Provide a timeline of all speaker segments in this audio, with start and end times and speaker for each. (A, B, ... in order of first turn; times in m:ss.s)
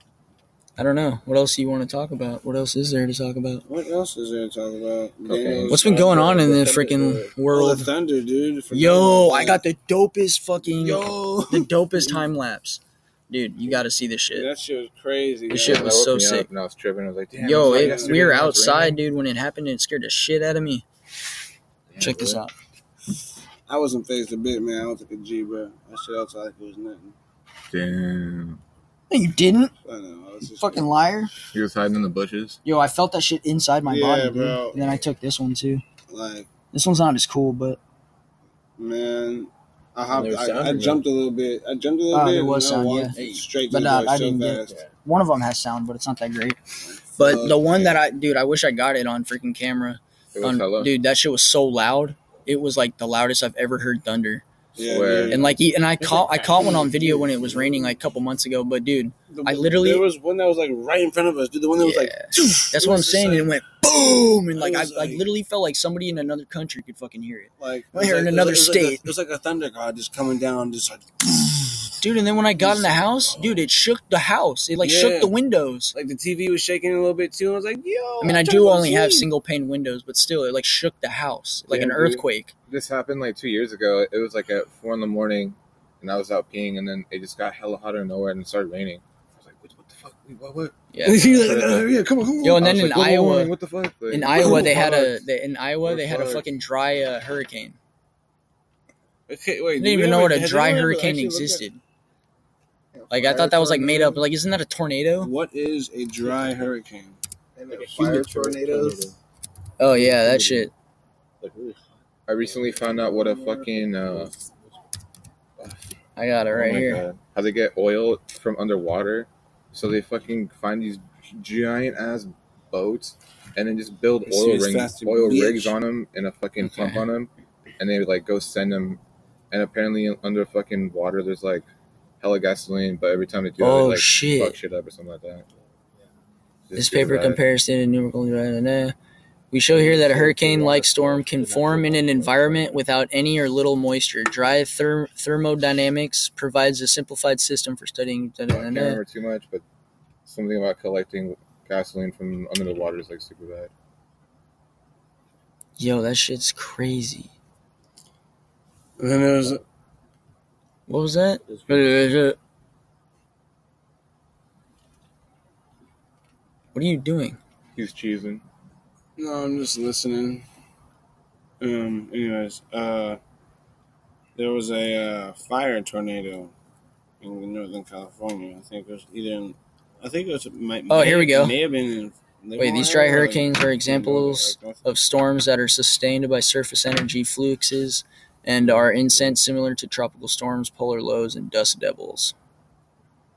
0:00.8-0:03.6 A
0:03.7-0:06.3 B
0:05.2-0:05.8 C
0:05.7-0:07.9 A
0:05.7-0:07.4 D
0:07.5-0:09.6 B
0:08.7-0:14.5 A
0:10.8-0:12.2 B
0:14.3-0:16.0 B
0:15.5-0:16.5 A
0:15.6-0:19.0 C
0:17.4-0:18.6 B
0:17.4-0:20.8 A
0:21.9-0:22.4 C
0:22.0-0:22.5 A
0:23.7-0:27.2 B
0:27.7-0:28.6 C
0:29.1-0:29.7 A
0:29.8-0:30.9 B
0:30.6-0:31.3 A
0:31.5-0:32.6 C
0:32.6-0:35.8 A
0:33.9-0:35.0 B
0:36.1-0:36.5 B
0:36.7-0:37.8 A
0:38.8-0:44.8 B
0:40.1-0:41.0 D
0:42.1-0:46.6 A
0:44.7-0:44.9 D
0:46.8-0:48.0 B
0:47.2-0:54.4 A
0:50.4-0:50.9 C
0:54.8-0:55.6 B
0:54.8-0:55.4 C
0:55.3-1:00.1 A
0:56.0-0:57.9 D
0:59.3-1:03.5 B
1:01.8-1:09.1 A
1:04.5-1:05.3 B
1:07.6-1:12.0 B
1:12.0-1:15.9 A
1:12.5-1:13.7 B
1:14.8-1:15.3 B
1:15.9-1:19.3 B
1:18.2-1:22.5 A
1:21.7-1:22.2 B
1:22.7-1:35.1 C
1:30.9-1:31.3 A
1:31.0-1:32.7 B
1:32.4-1:33.5 A
1:34.1-1:37.8 A
1:34.3-1:35.0 B
1:35.8-1:36.5 C
1:39.3-1:41.6 B
1:39.8-1:41.8 A
1:42.9-1:44.2 E
1:43.1-1:45.3 A
1:45.2-1:47.2 B
1:47.6-1:49.2 E
1:47.7-1:49.2 D
1:49.8-1:50.7 A
1:49.9-1:50.7 D
1:51.4-1:54.6 D
1:52.3-1:54.3 C
1:56.2-1:57.0 A
1:56.5-2:11.7 C
2:04.2-2:05.8 B
2:06.6-2:07.0 A
2:12.2-2:15.4 C
2:13.6-2:14.6 A
2:16.7-2:17.4 C
2:16.8-2:19.0 A
2:19.5-2:29.0 A
2:19.7-2:22.8 D
2:28.5-2:29.6 C
2:30.3-2:33.7 C
2:35.8-2:37.3 A
2:39.0-2:39.6 B
2:40.9-2:42.4 A
2:41.5-2:42.0 D
2:46.7-2:47.4 A
2:47.8-2:48.4 C
2:49.2-2:50.4 B
2:51.6-2:53.2 B
2:54.4-2:56.5 B
2:57.2-3:04.8 B
3:00.9-3:01.6 A
3:02.6-3:12.3 A
3:08.6-3:09.4 D